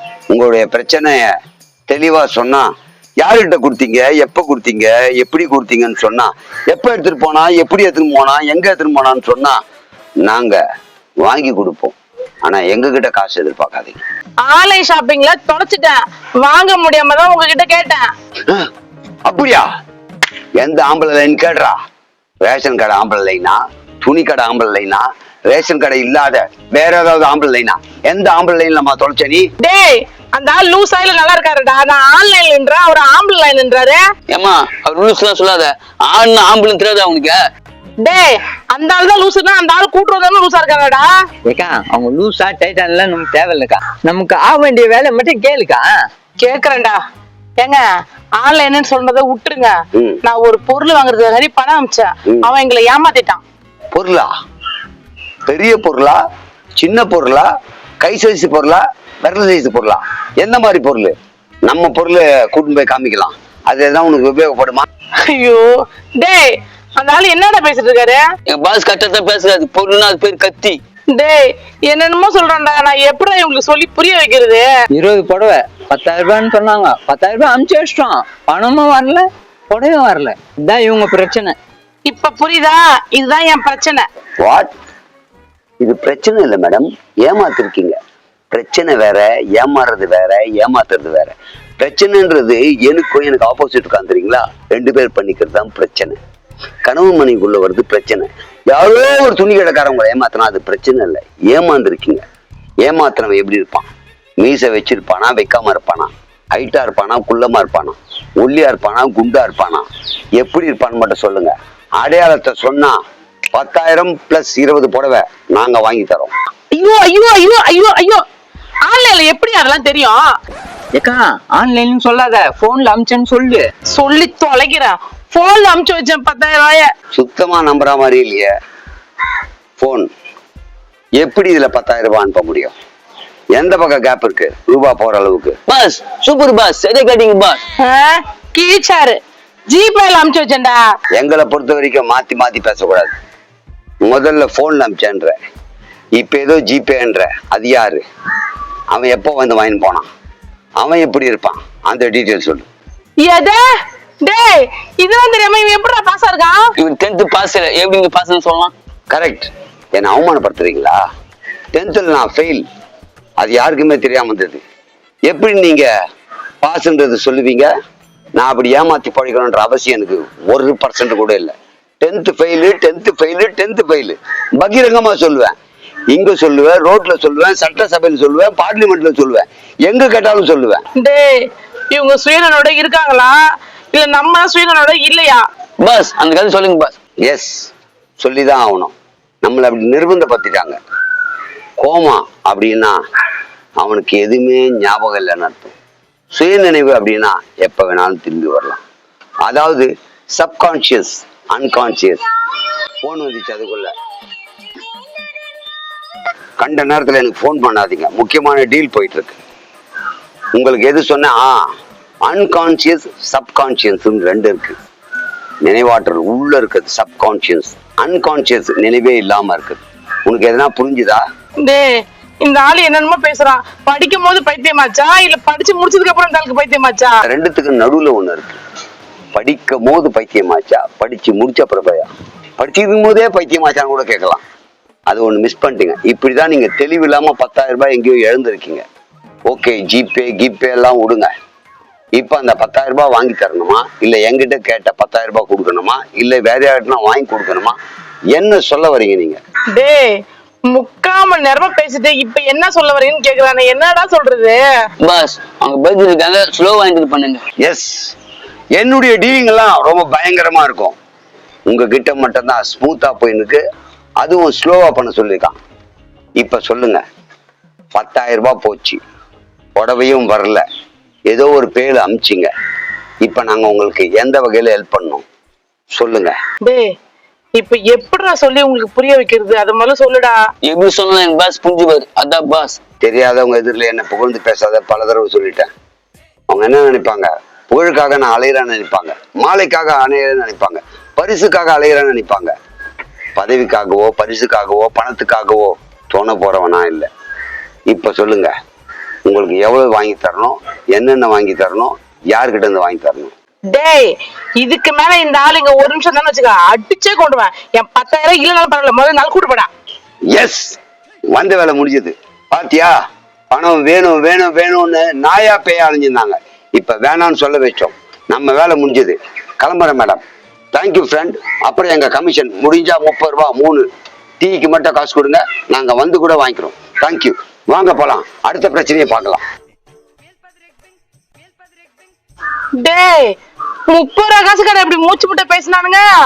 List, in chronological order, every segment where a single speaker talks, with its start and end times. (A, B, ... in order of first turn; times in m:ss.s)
0:00.3-0:01.3 A
0:01.9-0:02.7 A
0:03.2-0:09.6 A
0:10.2-0:10.6 A
0:11.2-0:14.0 A
0:14.4-0:18.1 B
0:19.2-0:19.7 A
0:20.6-0:21.8 A
0:22.4-0:29.5 A
0:29.6-0:34.0 B
0:34.3-0:37.4 C
0:38.0-0:41.1 B
0:41.4-0:45.9 D
0:46.4-0:47.0 B
0:48.4-0:53.4 B
0:49.9-0:50.2 A
0:53.9-0:54.3 A
0:55.4-0:56.2 A
0:56.8-0:57.5 A
0:58.0-1:01.1 A
1:01.6-1:04.8 A
1:05.2-1:08.2 B
1:08.5-1:10.8 C
1:11.1-1:14.7 B
1:14.9-1:21.5 D
1:22.0-1:24.0 B
1:24.4-1:24.7 A
1:25.8-1:28.0 A
1:28.5-1:36.2 A
1:36.8-1:42.2 A
1:42.8-1:43.9 A
1:44.4-1:53.0 A
1:53.5-1:56.3 A
1:56.7-1:58.2 B
1:58.8-2:00.3 B
2:00.9-2:03.6 D
2:03.9-2:06.9 B
2:07.1-2:08.5 A
2:09.8-2:10.1 A
2:11.2-2:12.7 A
2:13.5-2:15.6 A
2:15.7-2:17.6 C
2:17.8-2:20.8 B
2:21.1-2:23.1 A
2:24.0-2:25.4 A
2:26.2-2:28.0 A
2:28.9-2:30.0 A
2:30.8-2:32.7 A
2:33.2-2:33.6 B
2:34.2-2:36.6 B
2:36.8-2:38.7 C
2:39.1-2:41.0 A
2:41.7-2:42.6 A
2:43.4-2:44.6 A
2:45.3-2:45.9 A
2:46.6-2:47.7 A
2:48.4-2:55.5 A
2:56.1-3:00.8 A
3:01.0-3:01.3 B
3:01.9-3:03.4 B
3:03.9-3:05.4 B
3:05.8-3:06.9 C
3:07.2-3:10.8 A
3:11.8-3:13.0 A
3:13.8-3:15.7 A
3:16.3-3:18.8 A
3:19.4-3:22.2 A
3:23.0-3:23.9 A
3:26.6-3:29.4 A
3:30.5-3:31.7 A
3:32.2-3:34.7 A
3:35.6-3:41.2 A
3:41.6-3:47.2 B
3:47.2-3:48.6 A
3:49.3-3:54.4 A
3:55.1-3:58.8 A
3:59.5-4:01.3 A
4:02.2-4:07.8 A
4:08.3-4:09.4 A
4:09.7-4:14.6 B
4:15.0-4:17.4 C
4:17.6-4:18.1 A
4:18.7-4:21.0 A
4:21.7-4:23.6 A
4:24.2-4:25.5 A
4:26.4-4:27.0 A
4:27.9-4:29.0 A
4:29.8-4:30.6 A
4:31.3-4:32.5 A
4:33.2-4:35.2 A
4:35.9-4:36.3 A
4:36.6-4:36.9 B
4:37.6-4:40.4 B
4:40.6-4:42.8 C
4:43.0-4:45.7 A
4:46.5-4:52.5 A
4:53.4-4:57.1 A
4:57.9-4:58.5 A
4:59.2-5:03.3 A
5:03.7-5:09.7 B
5:10.3-5:10.8 A
5:11.3-5:12.9 A
5:13.5-5:20.2 A
5:20.7-5:23.8 A
5:24.4-5:29.4 A
5:32.8-5:33.3 B
5:33.9-5:36.1 B